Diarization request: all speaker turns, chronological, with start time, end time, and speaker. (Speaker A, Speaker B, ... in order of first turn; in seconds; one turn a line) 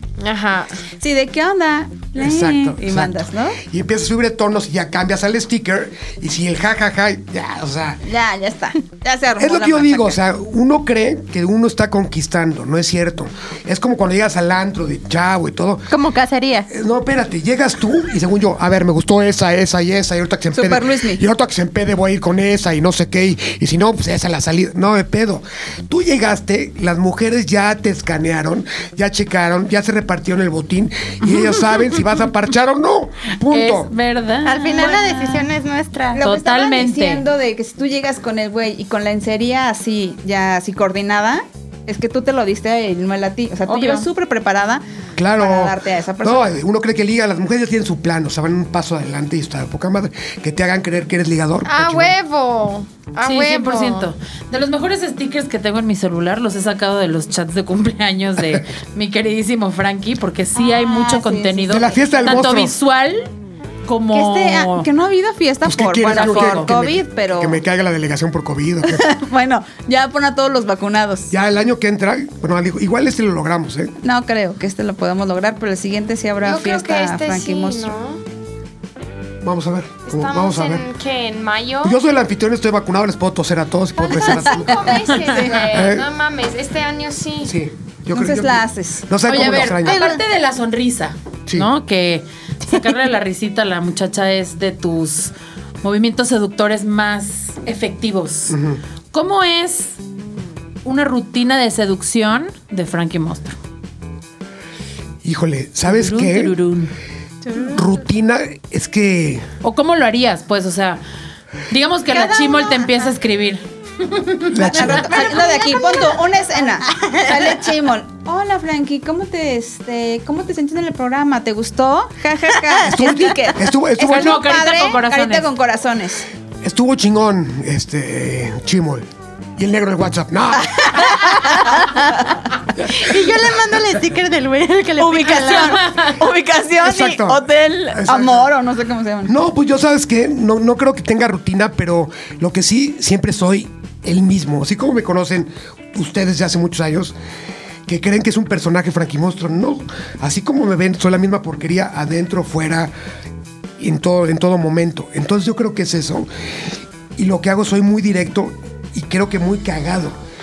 Speaker A: 0.2-0.8
Speaker B: 1.0-3.6
Speaker C: 2.2-8.0
Speaker B: 8.0-10.2
Speaker C: 9.4-16.0
Speaker D: 15.9-16.7
Speaker C: 16.7-33.9
Speaker B: 20.6-21.2
Speaker E: 33.5-35.5
Speaker D: 34.4-36.2
Speaker B: 36.1-44.8
Speaker E: 36.2-37.2
Speaker E: 43.7-44.0
Speaker C: 45.2-52.1
Speaker B: 45.4-46.6
Speaker A: 51.6-54.1
Speaker E: 53.2-63.3
Speaker B: 60.5-62.3
Speaker C: 61.7-62.7
Speaker E: 63.9-64.9
Speaker B: 64.1-67.6
Speaker C: 65.7-69.1
Speaker E: 66.1-66.7
Speaker B: 68.8-71.3
Speaker C: 71.3-74.0
Speaker B: 74.0-77.9
Speaker A: 76.4-78.2
Speaker C: 79.4-80.8
Speaker A: 80.0-82.0
Speaker C: 81.8-86.1
Speaker A: 84.0-87.5
Speaker B: 84.2-85.3
Speaker C: 87.5-90.1
Speaker B: 88.1-89.1
Speaker E: 89.3-98.6
Speaker D: 89.4-90.2
Speaker C: 98.5-98.8
Speaker E: 99.1-99.9
Speaker E: 100.8-103.5
Speaker C: 105.2-106.6
Speaker E: 105.8-106.9
Speaker D: 107.5-107.9
Speaker C: 107.6-109.5
Speaker E: 109.6-111.0
Speaker E: 111.7-114.5
Speaker D: 112.1-112.9
Speaker C: 114.5-115.4
Speaker B: 114.7-126.3
Speaker D: 114.8-116.2
Speaker D: 116.8-117.6
Speaker C: 122.8-124.5
Speaker E: 124.0-125.5
Speaker C: 126.6-131.4
Speaker B: 130.7-132.0
Speaker C: 132.8-133.1
Speaker D: 132.8-136.0
Speaker B: 135.0-139.3
Speaker E: 135.6-136.1
Speaker C: 136.8-138.5
Speaker C: 139.3-147.2
Speaker C: 147.9-152.9
Speaker C: 153.8-156.3
Speaker C: 157.2-160.2